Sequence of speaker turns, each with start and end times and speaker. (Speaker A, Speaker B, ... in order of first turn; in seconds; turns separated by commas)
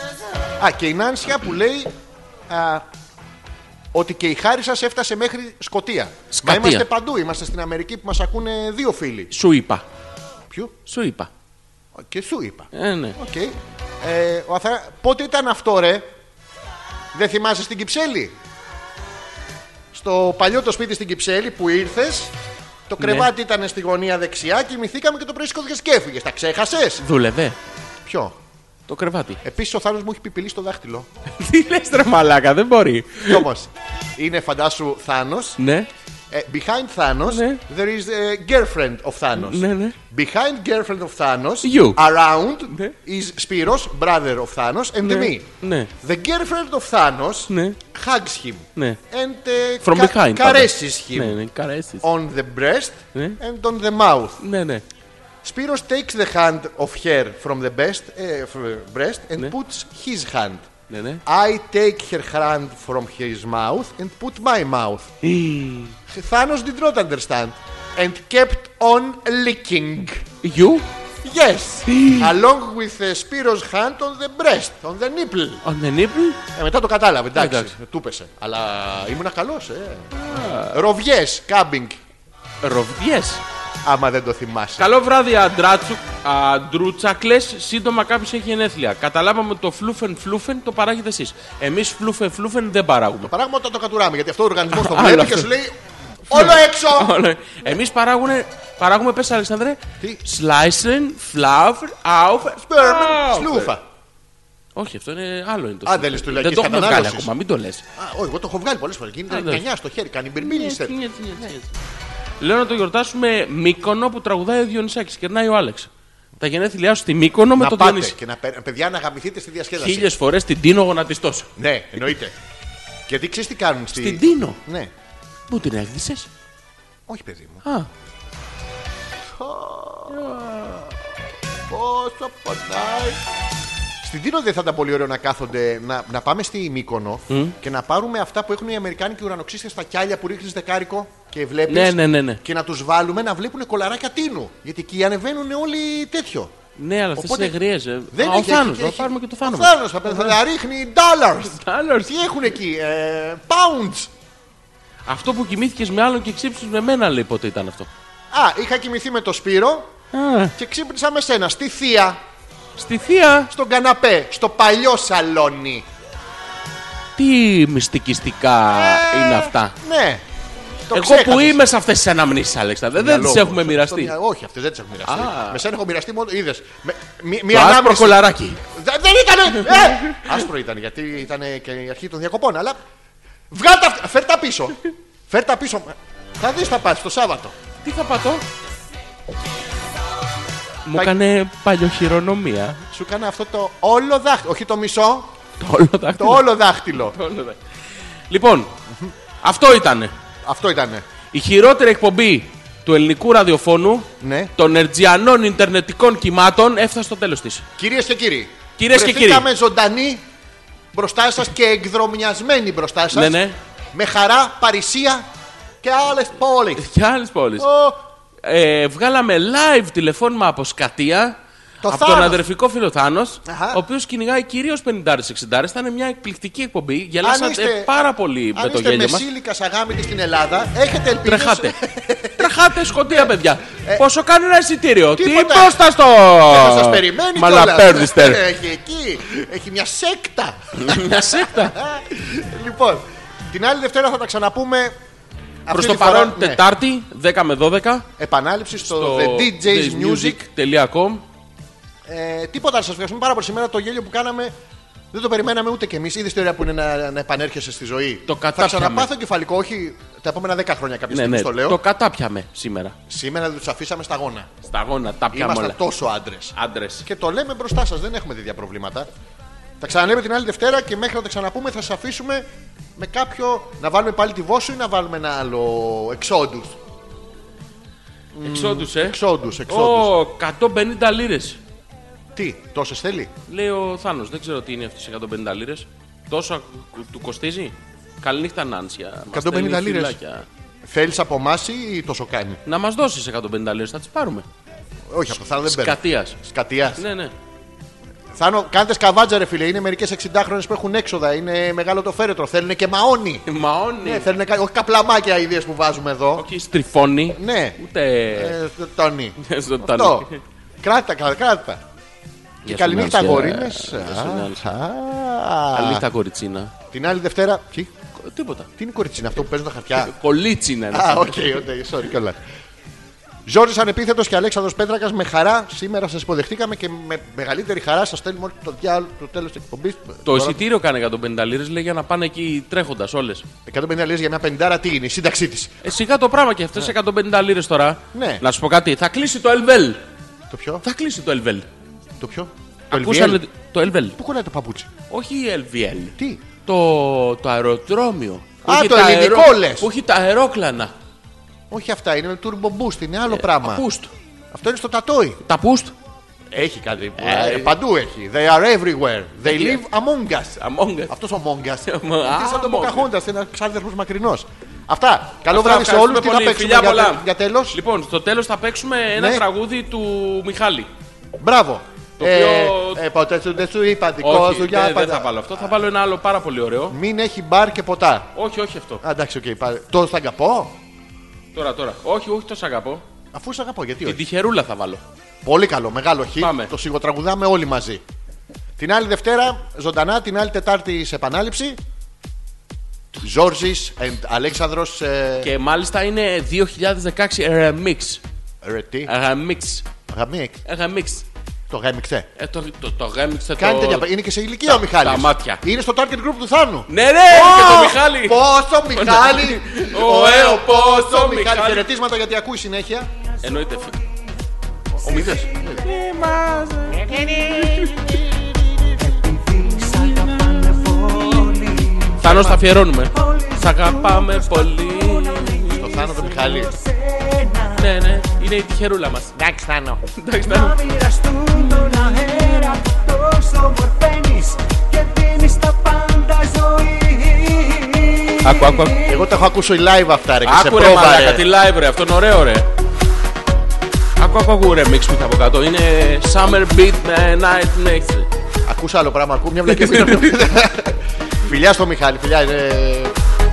Speaker A: 0.6-1.9, Speaker A: 2.5-2.9, Speaker A: 3.9-9.3, Speaker B: 6.3-6.9, Speaker B: 9.3-9.8, Speaker A: 10.5-10.7, Speaker B: 10.9-11.3, Speaker A: 11.9-16.1, Speaker B: 12.7-13.2, Speaker A: 17.1-18.3, Speaker A: 19.9-22.3, Speaker A: 22.9-27.0, Speaker B: 23.0-23.3, Speaker B: 27.0-27.6, Speaker A: 28.1-28.4, Speaker B: 28.9-29.4, Speaker A: 29.4-31.1, Speaker B: 31.4-33.5, Speaker A: 33.2-35.6, Speaker B: 35.6-35.9, Speaker A: 36.3-45.5, Speaker B: 37.3-37.6, Speaker B: 39.4-40.0, Speaker B: 41.6-42.0, Speaker B: 42.7-43.0, Speaker B: 45.0-45.9, Speaker A: 46.0-51.4, Speaker B: 47.5-47.8, Speaker B: 49.8-52.0, Speaker A: 52.0-54.4, Speaker B: 54.4-54.8, Speaker A: 55.4-60.7, Speaker B: 60.9-61.2, Speaker A: 61.2-65.1, Speaker B: 65.2-66.0, Speaker A: 66.1-70.2, Speaker B: 70.4-70.9, Speaker A: 71.2-75.6, Speaker B: 71.9-72.3, Speaker B: 75.6-76.4, Speaker A: 76.5-82.0, Speaker B: 77.3-77.7, Speaker B: 80.2-80.8, Speaker B: 82.6-83.4, Speaker A: 83.8-84.9, Speaker B: 84.8-93.3, Speaker A: 93.3-95.8, Speaker B: 94.7-95.5, Speaker A: 96.3-97.1, Speaker B: 96.3-103.7, Speaker A: 102.6-103.8, Speaker B: 104.8-107.8, Speaker A: 105.8-107.3, Speaker A: 108.0-111.0, Speaker B: 109.3-109.7, Speaker B: 110.4-111.7, Speaker B: 112.4-115.9, Speaker B: 116.4-118.2, Speaker A: 117.5-120.1, Speaker B: 119.8-121.5, Speaker A: 121.6-122.3, Speaker A: 123.1-124.9, Speaker B: 124.0-124.6, Speaker B: 125.5-126.3, Speaker A: 127.1-127.6, Speaker B: 127.6-127.9, Speaker A: 129.3-130.4, Speaker B: 130.1-130.9, Speaker A: 131.7-133.2, Speaker A: 134.0-146.5, Speaker B: 141.7-142.4, Speaker B: 146.8-150.3, Speaker A: 147.2-147.5, Speaker A: 148.1-154.1, Speaker B: 151.5-152.2, Speaker B: 155.1-157.9, Speaker A: 158.3-159.9, Speaker B: 160.1-160.5, Speaker A: 160.6-162.2, Speaker B: 162.8-163.5, Speaker A: 163.5-165.9, Speaker B: 167.2-169.8, Speaker A: 168.7-170.2, Speaker A: 170.9-171.6, Speaker B: 170.9-174.1, Speaker A: 172.9-182.8, Speaker B: 175.1-175.6, Speaker B: 177.5-178.6, Speaker A: 183.5-187.6, Speaker B: 187.8-188.4, Speaker B: 190.8-192.8, Speaker A: 192.9-195.3, Speaker B: 195.6-197.6, Speaker A: 196.2-197.2, Speaker B: 198.3-198.7, Speaker B: 199.4-200.1, Speaker A: 200.4-201.0, Speaker B: 201.3-207.7, Speaker A: 204.2-204.5, Speaker A: 207.8-210.2, Speaker B: 208.8-209.5, Speaker A: 210.9-213.4, Speaker B: 213.1-213.6, Speaker A: 213.9-215.3, Speaker A: 215.8-216.9, Speaker B: 216.8-217.7, Speaker A: 217.6-218.0, Speaker B: 218.4-221.3, Speaker A: 221.8-222.4, Speaker B: 221.9-229.3, Speaker A: 223.4-223.8, Speaker A: 227.2-227.9, Speaker A: 228.5-232.5, Speaker B: 231.2-231.8, Speaker B: 232.4-238.4, Speaker A: 233.1-234.1, Speaker A: 235.1-235.8, Speaker A: 236.5-244.9, Speaker B: 240.8-241.8, Speaker A: 245.7-246.6, Speaker B: 245.7-248.1, Speaker A: 248.2-250.4, Speaker B: 248.8-251.2, Speaker A: 252.1-254.5, Speaker A: 255.1-261.8, Speaker B: 258.3-259.1, Speaker B: 261.1-263.0, Speaker A: 263.1-264.5, Speaker B: 264.6-265.8, Speaker A: 265.3-269.1, Speaker B: 266.5-267.1, Speaker A: 269.8-276.8, Speaker A: 278.3-280.1, Speaker B: 278.4-281.6, Speaker A: 282.4-283.3, Speaker B: 283.5-290.5, Speaker A: 289.3-290.2, Speaker A: 290.9-292.6, Speaker B: 292.7-294.4, Speaker A: 295.1-297.1, Speaker B: 295.6-296.4, Speaker B: 297.0-297.3, Speaker A: 298.4-303.4, Speaker B: 303.5-304.3, Speaker A: 304.0-306.5, Speaker B: 306.4-308.6, Speaker A: 307.3-307.8, Speaker A: 308.3-310.3, Speaker B: 309.4-310.4, Speaker A: 310.8-311.8, Speaker B: 312.6-314.7, Speaker A: 312.6-316.1, Speaker B: 315.7-316.7, Speaker A: 316.9-317.9, Speaker B: 318.2-318.7, Speaker A: 318.8-320.1, Speaker B: 319.9-321.5, Speaker A: 320.9-322.4, Speaker A: 323.5-330.6, Speaker B: 330.2-333.5, Speaker A: 333.7-335.8, Speaker B: 335.8-340.0, Speaker A: 338.1-338.4, Speaker A: 340.5-340.8, Speaker B: 340.8-341.7, Speaker A: 342.2-343.4, Speaker B: 342.9-344.2, Speaker A: 344.2-344.9, Speaker B: 345.1-350.9, Speaker A: 348.6-349.9, Speaker A: 351.7-353.9, Speaker B: 353.3-354.1, Speaker A: 354.5-355.4, Speaker B: 355.4-355.9, Speaker A: 356.5-367.8, Speaker B: 357.2-357.8, Speaker B: 359.4-359.8, Speaker B: 360.6-361.1, Speaker B: 361.9-363.1, Speaker B: 365.5-370.9, Speaker A: 369.1-369.5, Speaker A: 371.4-375.5, Speaker B: 372.2-373.0, Speaker B: 374.2-377.0, Speaker A: 376.9-378.3, Speaker B: 378.4-379.0, Speaker A: 379.0-380.8, Speaker B: 381.5-383.0, Speaker A: 383.3-384.2, Speaker B: 384.1-385.0, Speaker A: 385.4-388.0, Speaker B: 386.4-386.7, Speaker A: 388.8-391.8, Speaker A: 393.2-395.5, Speaker B: 395.4-398.2, Speaker A: 398.6-399.1, Speaker B: 399.1-399.9, Speaker A: 400.1-400.6, Speaker B: 400.6-401.2, Speaker A: 401.7-402.3, Speaker B: 402.4-404.1, Speaker A: 403.6-413.1, Speaker B: 404.6-405.6, Speaker B: 406.9-408.4, Speaker B: 408.9-411.9, Speaker B: 413.4-414.0, Speaker C: 413.4-414.1, Speaker A: 414.9-415.9, Speaker B: 415.0-418.2, Speaker C: 415.1-415.9, Speaker A: 416.9-419.0, Speaker C: 419.0-422.5, Speaker B: 419.7-426.3, Speaker A: 422.2-422.6, Speaker C: 423.1-428.1, Speaker A: 425.8-426.7, Speaker B: 427.8-429.3, Speaker A: 429.4-430.0, Speaker B: 430.2-430.8, Speaker C: 430.4-439.3, Speaker B: 431.6-432.6, Speaker B: 438.4-439.0, Speaker A: 439.1-441.4, Speaker B: 440.4-442.7, Speaker B: 444.2-448.3, Speaker A: 448.7-453.1, Speaker B: 449.6-450.4